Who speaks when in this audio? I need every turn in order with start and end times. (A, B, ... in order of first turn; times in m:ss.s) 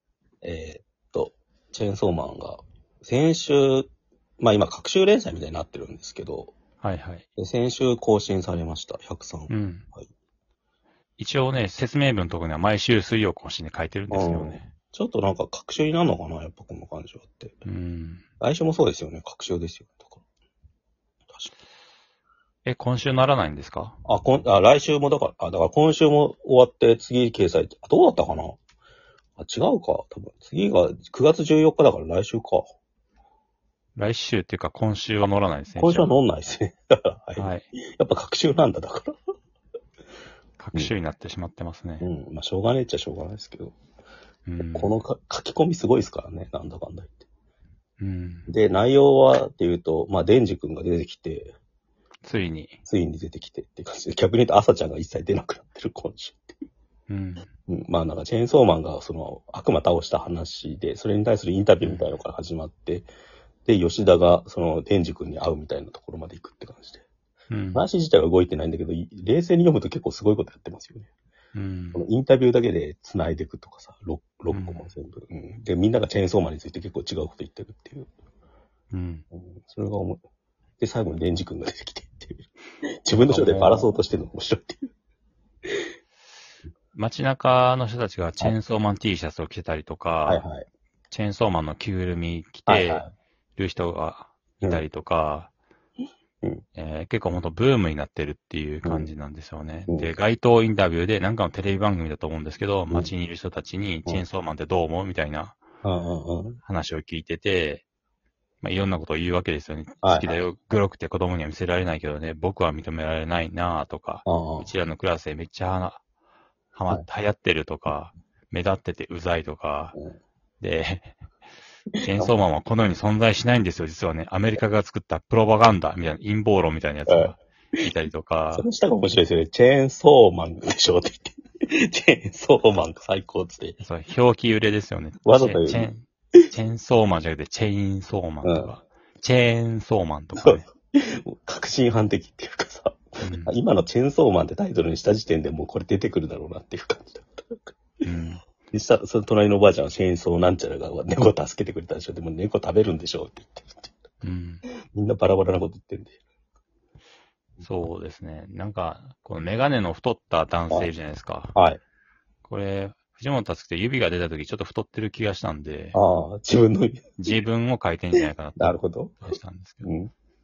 0:00.4-0:03.9 A
0:04.4-0:06.5 A
0:06.8-0:07.2 B
0:07.4-0:10.0 A
0:09.5-0:09.8 B
0:11.2-0:14.7 B
0:14.1-0:17.6 A
0:17.6-0:18.2 B
0:18.4-0:20.2 A
0:22.6-0:24.0 B
0:24.1-0:28.6 A
0:29.4-0:32.7 A
0:34.0-0:36.1 B
0:35.8-0:39.1 A
0:37.4-0:37.7 B
0:40.6-0:42.1 B
0:42.0-0:43.7 A
0:44.5-0:44.9 B
0:44.6-0:47.2 A
0:48.0-0:48.5 B
0:48.5-0:51.5 A
0:52.2-0:52.8 B
0:52.8-0:56.6 A
0:57.1-0:57.5 B
0:57.6-1:03.1 A
1:01.8-1:02.1 B
1:03.6-1:07.0 A
1:07.5-1:07.9 B
1:07.7-1:11.1 A
1:11.5-1:12.0 B
1:11.9-1:18.1 A
1:14.5-1:14.9 B
1:18.9-1:19.2 B
1:19.3-1:20.2 A
1:20.8-1:22.5 A
1:23.0-1:24.9 A
1:23.2-1:23.9 B
1:26.9-1:30.4 B
1:30.3-1:30.6 A
1:31.1-1:33.0 B
1:32.7-1:33.1 A
1:33.6-1:35.5 B
1:36.8-1:45.6 B
1:38.8-1:39.1 A
1:39.9-1:40.1 A
1:45.8-1:46.6 A
1:46.6-1:47.8 B
1:48.6-1:56.0 B
1:50.0-1:50.4 A
1:54.2-1:54.7 A
1:56.7-1:59.9 B
2:00.6-2:01.1 B
2:02.1-2:08.6 B
2:07.1-2:07.8 A
2:08.5-2:13.8 A
2:13.8-2:20.7 B
2:15.2-2:15.9 A
2:18.4-2:18.7 A
2:20.4-2:28.0 A
2:23.2-2:23.5 B
2:28.0-2:28.4 B
2:28.7-2:33.9 A
2:34.2-2:34.6 B
2:34.9-2:36.2 A
2:37.6-2:41.6 B
2:41.5-2:41.8 A
2:42.4-2:46.0 B
2:45.9-2:47.1 A
2:47.2-2:49.9 B
2:48.6-2:49.2 A
2:49.8-2:50.1 A